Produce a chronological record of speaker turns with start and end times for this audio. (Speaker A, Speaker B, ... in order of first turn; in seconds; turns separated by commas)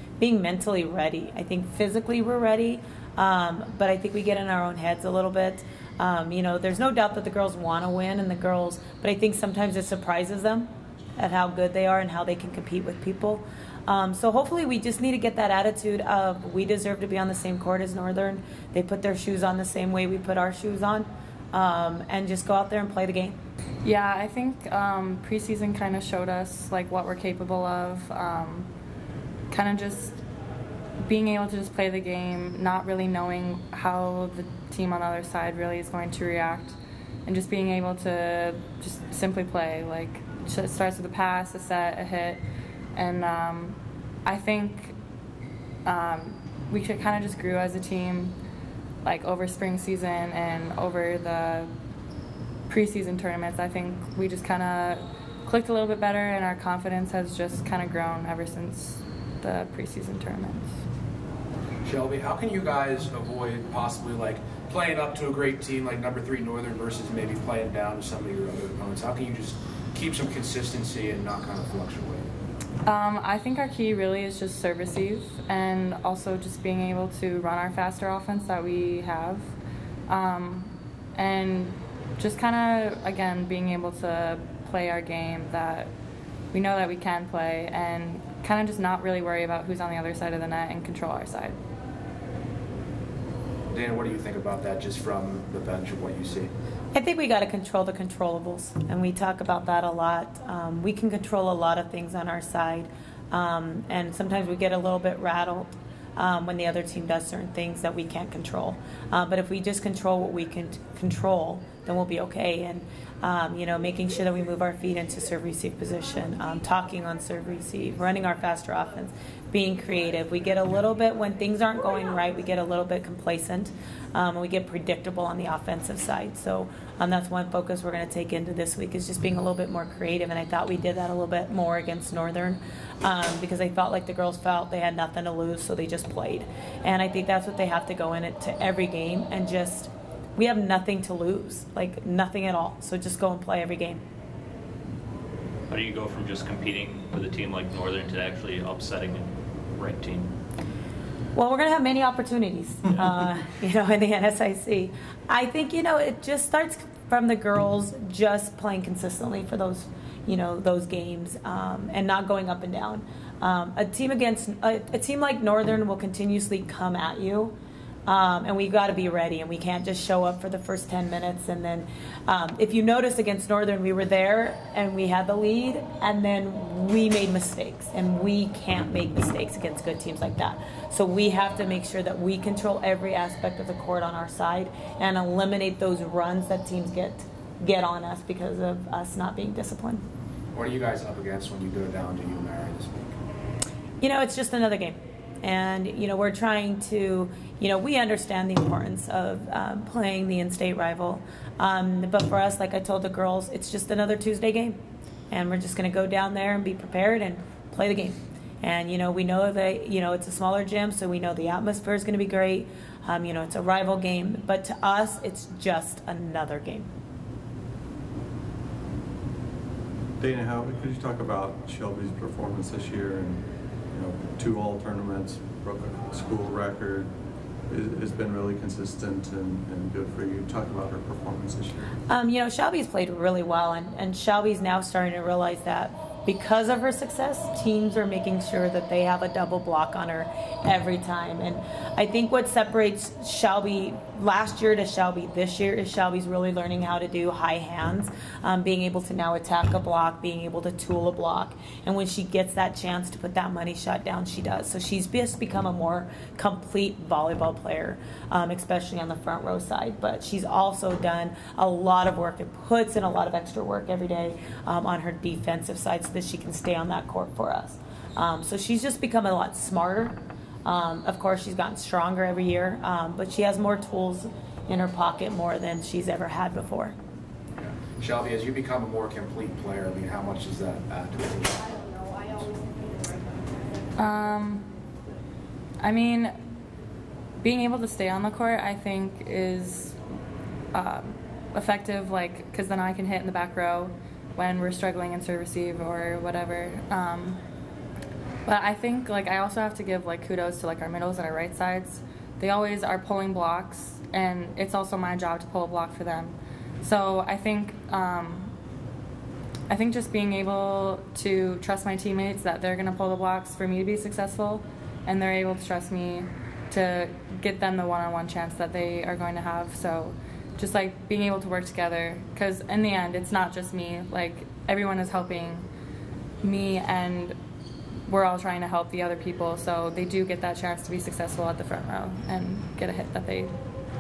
Speaker A: 0.2-23.4, Speaker B: 23.8-28.7, Speaker B: 29.5-30.2, Speaker B: 31.1-42.4, Speaker B: 43.0-45.0, Speaker B: 45.9-48.4, Speaker B: 49.0-51.7, Speaker B: 52.7-60.7, Speaker C: 61.9-72.2, Speaker B: 72.8-79.5, Speaker B: 80.1-85.9, Speaker B: 86.5-91.6, Speaker C: 93.7-96.5, Speaker A: 96.9-144.0, Speaker D: 145.7-150.3, Speaker A: 151.3-167.6, Speaker A: 168.1-190.0, Speaker C: 190.5-193.2, Speaker A: 194.0-204.8, Speaker A: 205.3-216.9, Speaker E: 220.2-227.1, Speaker E: 227.7-231.9, Speaker A: 232.1-276.9, Speaker C: 277.6-281.8, Speaker B: 283.9-284.7, Speaker B: 285.8-286.3, Speaker B: 287.4-290.0, Speaker B: 290.7-297.4, Speaker B: 298.5-308.5, Speaker B: 309.7-325.7, Speaker B: 326.4-327.4, Speaker B: 328.1-333.5